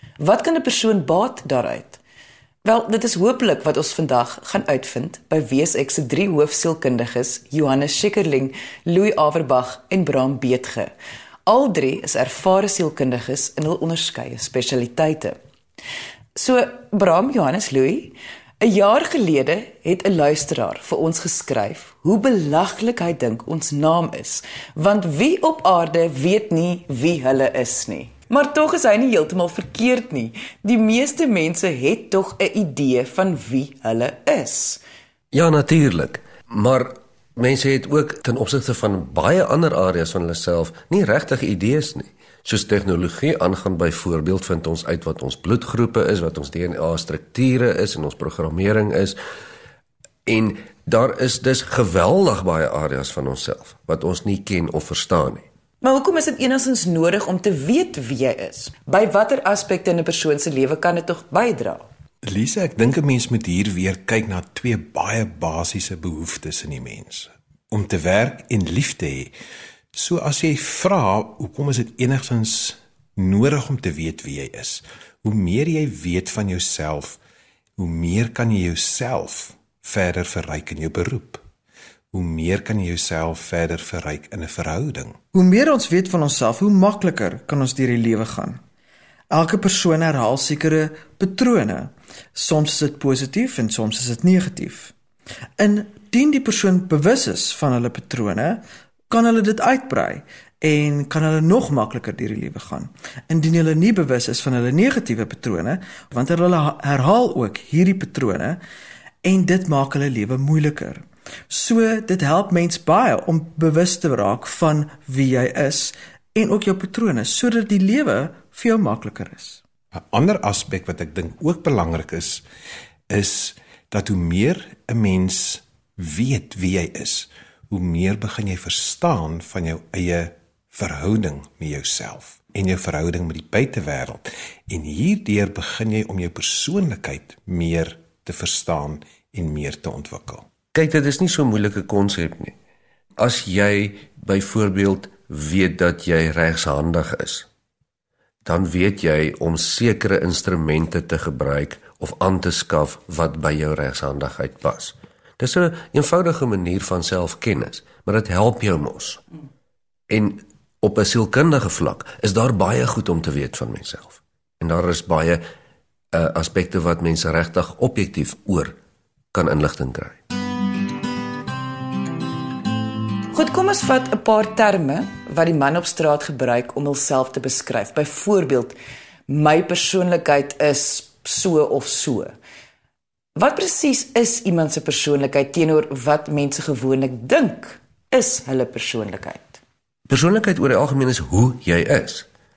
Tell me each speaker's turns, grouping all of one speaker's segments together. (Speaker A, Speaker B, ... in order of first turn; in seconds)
Speaker A: 0.2-2.0, 2.6-10.9, 11.5-15.4, 16.4-34.8, 55.8-61.9, 173.3-178.8, 179.3-182.4, 183.3-189.6
Speaker B: 35.3-49.2, 50.3-55.5, 140.7-142.6, 143.2-147.5, 148.4-159.2, 160.1-165.4, 166.1-168.7, 169.3-170.2, 190.1-192.3
Speaker C: 62.2-69.3, 69.9-77.2, 77.8-81.4, 82.1-85.2, 119.9-122.4, 123.1-140.5
Speaker D: 85.3-88.6, 89.3-94.9, 95.6-108.6, 109.2-119.6